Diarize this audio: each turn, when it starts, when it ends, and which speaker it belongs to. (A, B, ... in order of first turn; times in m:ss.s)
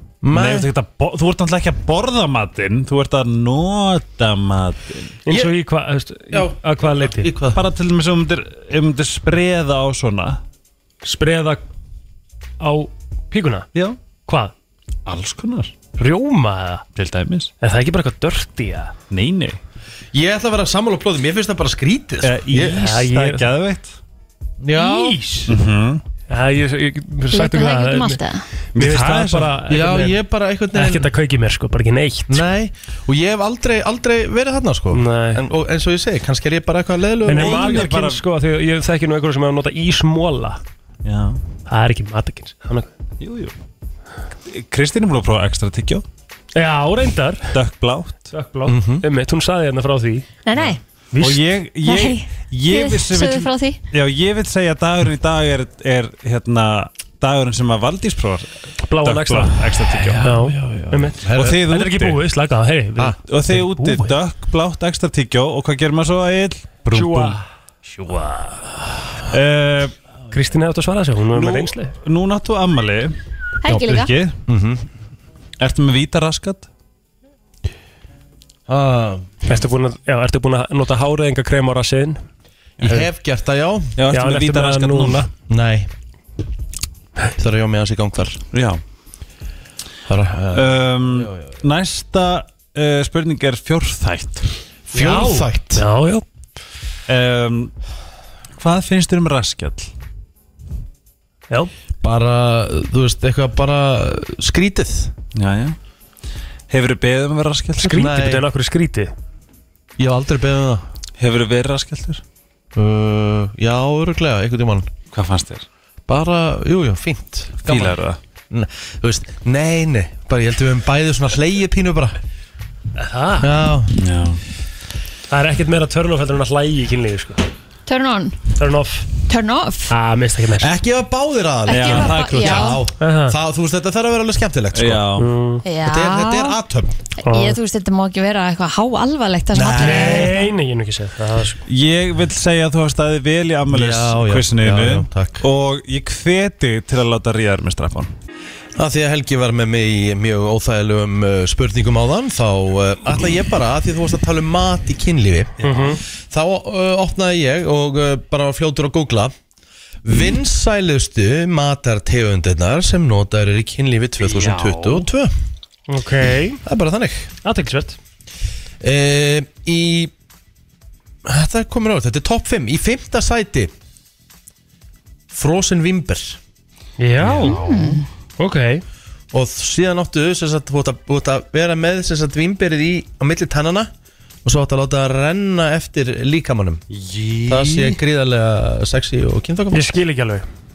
0:00.2-0:00.7 A
0:00.3-0:05.1 B
0:05.2-0:07.3 C
0:06.3-0:07.6 A
0:07.5-0:10.4 B
0:11.0-0:11.6 C
0:12.6-0:13.7 C
0:14.3-0:14.5 C
0:15.0-0:15.7 B
0:16.0-0:16.8 C
0:16.9-0:17.5 B
0:17.6-0:18.9 C
0:19.1-0:19.6 B
0:20.1-0:22.8 A
0:22.2-0:24.0 B
0:22.6-0:23.5 C
0:24.6-0:25.2 A
0:24.8-0:25.5 C
0:25.5-0:26.0 B
0:26.3-0:28.2 C
0:27.3-0:28.4 D
0:28.7-0:29.5 B
0:28.7-0:30.2 C
0:29.7-0:31.1 A
0:30.7-0:32.4 C
0:32.3-0:37.9 A
0:34.9-0:35.4 C
0:37.2-0:40.6 C
0:37.3-0:38.2 B
0:41.0-0:41.4 B
0:41.7-0:42.9 C
0:43.2-0:43.5 B
0:44.5-0:46.0 B
0:46.5-0:47.5 C
0:47.5-0:48.3 B
0:48.3-0:50.3 C
0:48.7-0:49.0 A
0:50.4-0:50.8 D
0:50.5-1:00.3 B
0:51.1-0:51.4 C
0:51.8-0:53.8 D
0:58.8-1:04.2 C
1:00.4-1:01.6 A
1:01.3-1:02.2 B
1:03.3-1:09.9 B
1:06.9-1:07.4 C
1:10.3-1:11.9 C
1:11.3-1:13.2 B
1:13.6-1:14.1 D
1:13.7-1:14.4 B
1:14.5-1:14.8 A
1:15.6-1:16.7 B
1:18.7-1:19.5 A
1:19.4-1:22.2 C
1:22.8-1:23.1 B
1:22.8-1:23.9 A
1:24.0-1:25.3 B
1:24.1-1:25.3 C
1:25.5-1:25.9 A
1:27.3-1:28.4 A
1:28.5-1:28.8 B
1:30.1-1:31.4 A
1:30.5-1:34.5 B
1:34.9-1:35.8 A
1:34.9-1:36.2 C
1:37.1-1:37.7 B
1:38.6-1:39.9 B
1:42.0-1:45.1 A
1:45.3-1:45.8 B
1:46.7-1:48.0 B
1:47.8-1:49.1 C
1:47.9-1:48.4 A
1:50.0-1:50.8 A
1:51.2-1:52.2 B
1:52.7-1:54.9 A
1:55.1-1:55.6 B
1:56.1-1:58.0 A
1:57.6-1:58.2 B
1:58.5-2:02.2 A
2:03.0-2:03.6 C
2:03.4-2:04.0 A
2:04.0-2:04.4 B
2:05.3-2:07.5 C
2:07.9-2:08.4 D
2:08.6-2:09.1 C
2:09.3-2:09.9 D
2:09.9-2:10.7 C
2:10.6-2:15.1 A
2:11.7-2:12.8 D
2:11.7-2:12.8 B
2:13.0-2:13.4 C
2:14.7-2:15.3 B
2:15.2-2:15.6 C
2:15.6-2:16.6 D
2:15.8-2:17.0 A
2:17.2-2:20.4 D
2:17.2-2:17.6 C
2:19.5-2:20.4 A
2:19.7-2:21.6 C
2:21.7-2:28.1 B
2:23.7-2:25.4 A
2:28.8-2:35.5 A
2:35.6-2:36.0 C
2:35.6-2:36.0 B
2:36.2-2:39.3 A
2:40.0-2:45.3 A
2:44.2-2:45.1 B
2:45.9-2:46.6 C
2:46.6-2:47.3 A
2:47.4-2:48.0 C
2:48.8-2:50.1 A
2:51.2-2:53.7 A
2:55.3-2:56.4 A
2:57.0-2:57.6 C
2:57.2-2:58.0 B
2:57.4-2:58.0 D
2:58.4-2:58.8 C
2:59.3-3:03.9 A
3:04.4-3:06.8 A
3:06.9-3:08.0 B
3:07.4-3:09.9 A
3:09.7-3:10.5 C